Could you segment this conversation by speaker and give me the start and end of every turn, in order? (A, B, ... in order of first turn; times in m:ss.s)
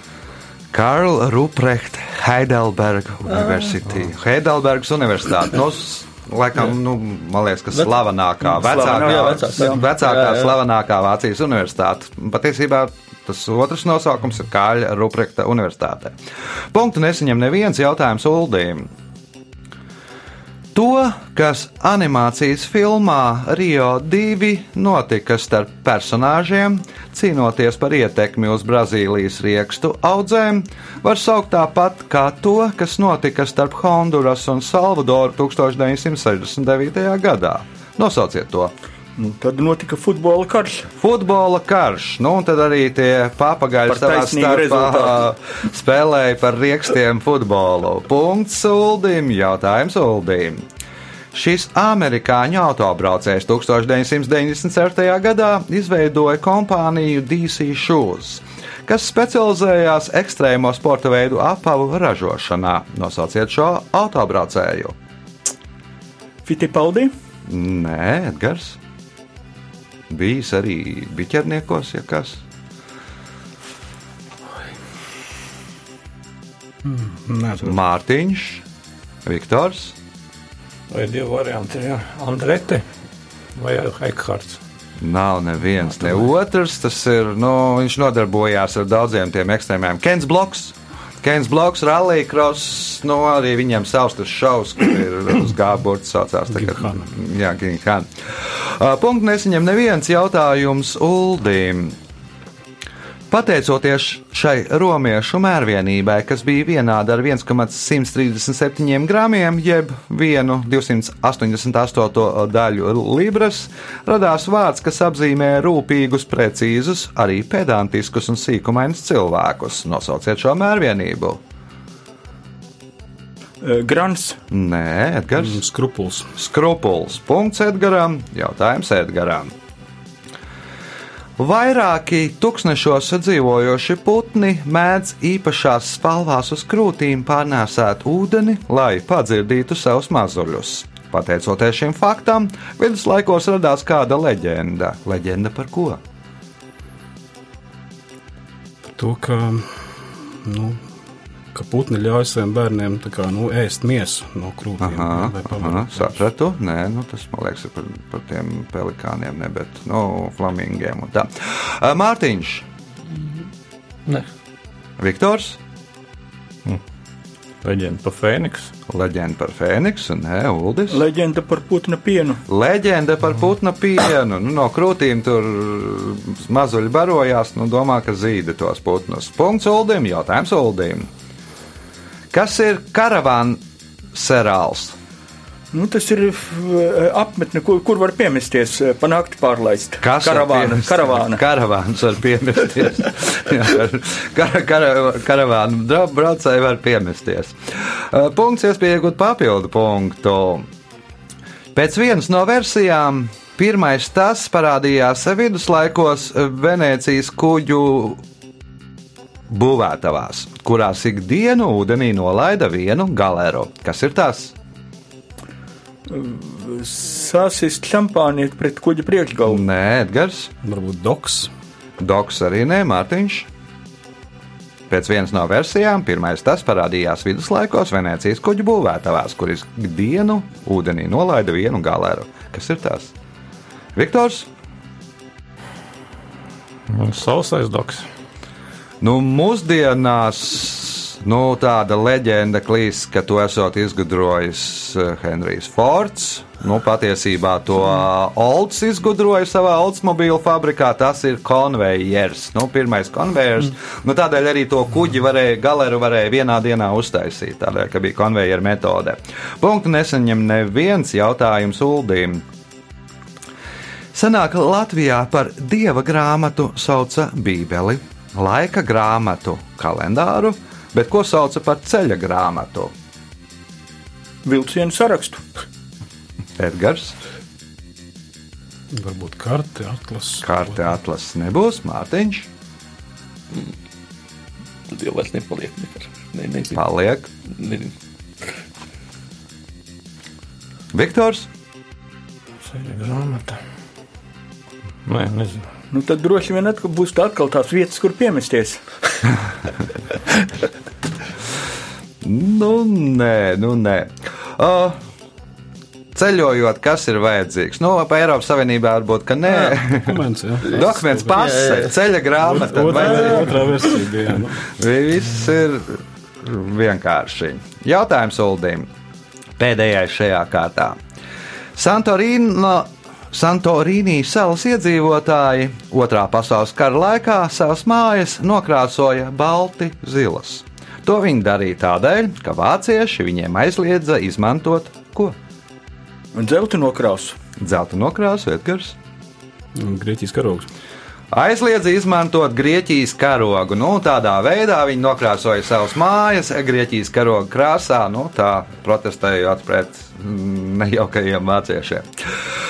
0:00.7-0:16.1 A
0:03.3-0:03.7 B
0:08.4-0:09.8 C
0:08.8-0:10.5 B
0:16.7-0:18.9 A
0:20.7-0:38.7 A
0:39.2-0:40.8 C
0:41.0-0:50.6 A
0:43.9-0:45.2 C
0:51.3-1:04.9 A
1:06.4-1:07.1 C
1:07.5-1:08.8 A
1:10.1-1:12.4 A
1:16.8-1:17.8 D
1:17.6-1:18.6 A
1:19.2-1:19.9 A
1:20.9-1:22.8 E
1:23.5-1:24.6 E
1:25.0-1:42.0 A
1:36.5-1:37.0 D
1:43.3-2:01.4 A
2:03.6-2:04.4 C
2:04.5-2:05.6 A
2:05.4-2:06.3 D
2:06.4-2:09.5 A
2:11.4-2:26.0 A
2:28.8-2:30.9 D
2:31.5-2:36.2 D
2:34.8-2:42.6 A
2:45.0-2:45.6 A
2:47.6-2:48.7 E
2:48.9-2:51.0 A
2:50.9-2:52.4 C
2:52.5-3:01.1 A
3:02.3-3:03.6 A
3:04.1-3:04.9 A
3:05.7-3:11.4 C
3:10.0-3:20.6 A
3:21.7-3:28.2 A
3:29.5-3:34.5 A
3:36.1-3:39.6 C
3:39.4-3:40.5 A
3:40.6-3:41.5 D
3:42.0-3:43.5 A
3:44.9-3:53.1 A
3:53.9-3:54.5 A
3:56.9-3:58.0 E
3:59.0-4:22.4 A
4:24.1-4:32.9 A
4:34.4-4:35.4 C
4:36.6-4:37.1 A
4:38.9-4:40.8 D
4:40.4-4:42.5 A
4:44.9-4:46.8 B
4:46.7-4:47.3 A
4:47.5-4:47.9 B
4:50.9-4:51.5 A
4:52.6-4:53.6 E
4:55.0-4:55.7 E
4:55.9-4:58.8 C
5:02.2-5:05.0 A
5:06.1-5:13.7 A
5:09.9-5:11.6 D
5:11.3-5:11.9 B
5:12.4-5:14.7 D
5:14.7-5:18.9 A
5:19.6-5:21.0 A
5:21.8-5:35.3 A
5:36.3-5:37.4 C
5:37.6-5:38.9 A
5:39.7-5:40.7 D
5:41.3-5:52.0 A